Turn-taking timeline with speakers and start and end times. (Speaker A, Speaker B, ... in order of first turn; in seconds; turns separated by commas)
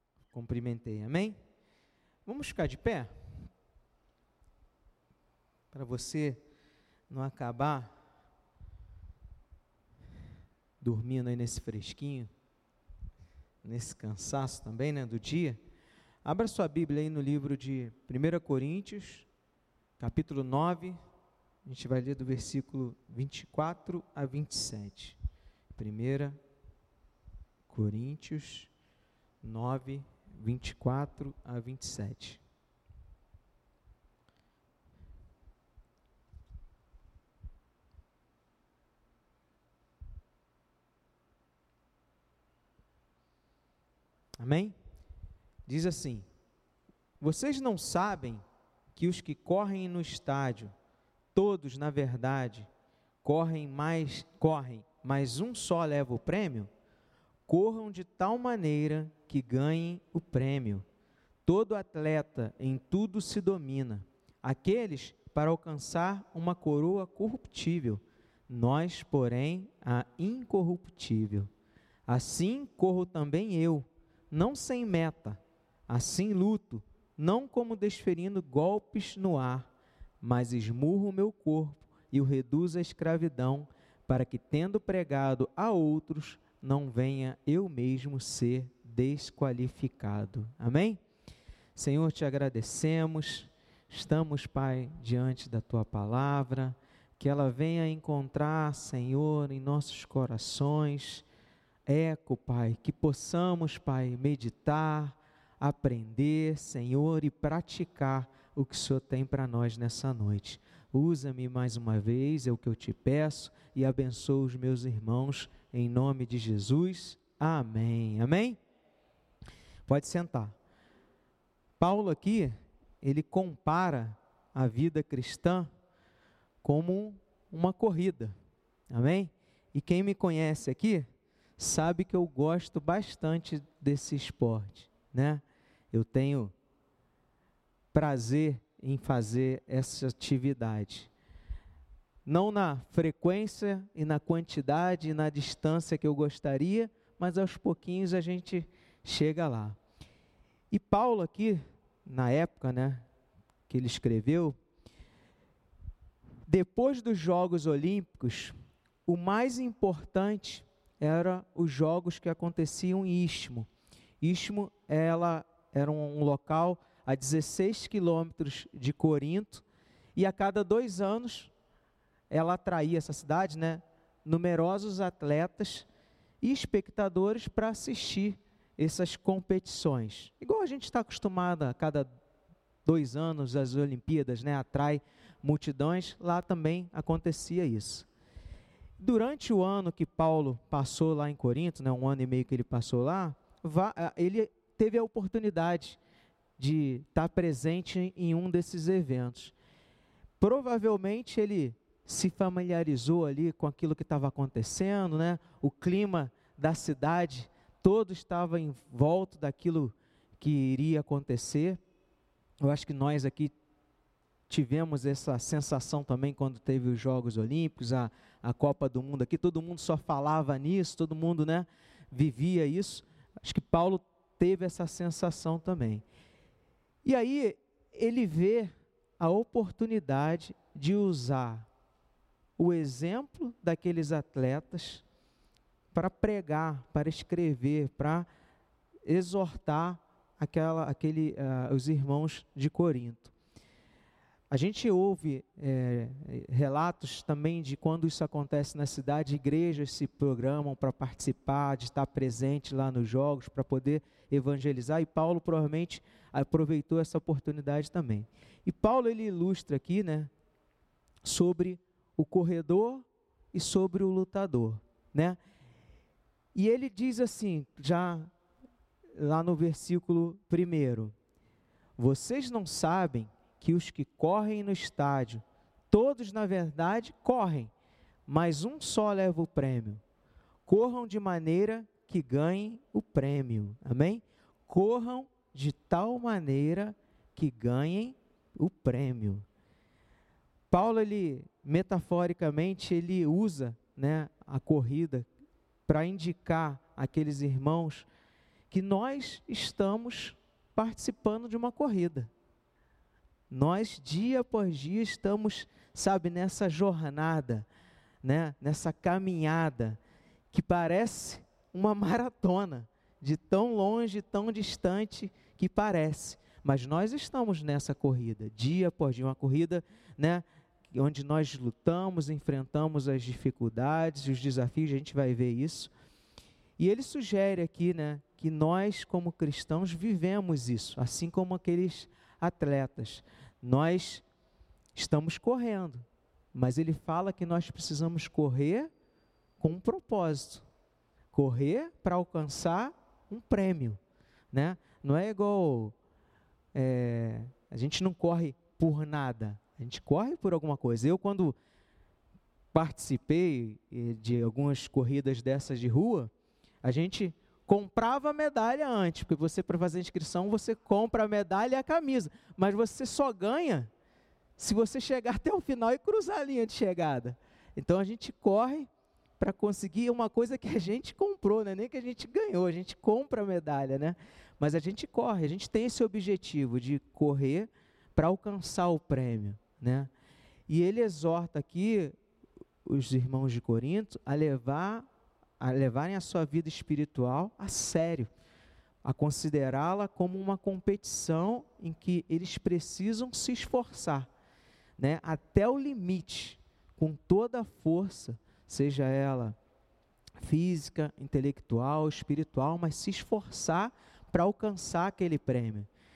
Speaker A: 0.3-1.4, Speaker A: 2.3-3.1, Speaker A: 5.7-6.4, Speaker A: 7.1-7.9, Speaker A: 10.8-12.3, Speaker A: 13.6-15.6, Speaker A: 16.2-19.3, Speaker A: 20.0-21.0, Speaker A: 21.6-25.2, Speaker A: 25.7-26.4, Speaker A: 27.7-28.7, Speaker A: 29.4-32.4, Speaker A: 44.4-44.8, Speaker A: 45.7-46.3, Speaker A: 47.2-48.4, Speaker A: 49.0-50.7, Speaker A: 51.4-52.7, Speaker A: 53.2-56.7, Speaker A: 57.5-60.9, Speaker A: 61.5-71.5, Speaker A: 72.1-79.7, Speaker A: 80.2-91.0, Speaker A: 91.8-101.2, Speaker A: 101.9-118.6, Speaker A: 119.9-120.5, Speaker A: 121.8-125.7, Speaker A: 126.6-128.3, Speaker A: 128.9-131.1, Speaker A: 131.6-136.5, Speaker A: 137.9-141.1, Speaker A: 142.3-149.8, Speaker A: 150.7-153.1, Speaker A: 153.7-154.6, Speaker A: 156.5-158.6, Speaker A: 159.1-163.7, Speaker A: 164.2-169.6, Speaker A: 170.2-171.5, Speaker A: 172.3-175.9, Speaker A: 176.4-182.1, Speaker A: 182.8-188.1, Speaker A: 189.0-196.0, Speaker A: 196.6-199.5, Speaker A: 200.4-211.8, Speaker A: 212.6-213.5, Speaker A: 214.5-226.0, Speaker A: 227.0-231.7, Speaker A: 232.6-235.0, Speaker A: 235.9-238.3, Speaker A: 239.1-243.3, Speaker A: 244.5-260.3, Speaker A: 261.2-265.4, Speaker A: 266.6-268.3, Speaker A: 269.2-271.1, Speaker A: 272.0-277.7, Speaker A: 278.3-280.0, Speaker A: 280.7-289.4, Speaker A: 290.7-295.3, Speaker A: 295.9-298.1, Speaker A: 298.7-302.3, Speaker A: 303.5-307.7, Speaker A: 308.2-310.0, Speaker A: 310.5-325.9, Speaker A: 326.8-334.2, Speaker A: 334.9-336.0, Speaker A: 336.5-338.9, Speaker A: 339.6-340.6, Speaker A: 341.3-344.0, Speaker A: 344.5-345.9, Speaker A: 346.7-351.6, Speaker A: 352.7-356.3, Speaker A: 356.8-363.9, Speaker A: 364.6-380.1, Speaker A: 380.7-382.1, Speaker A: 382.9-385.1, Speaker A: 385.6-388.3, Speaker A: 389.0-394.3, Speaker A: 395.0-399.6, Speaker A: 400.4-405.9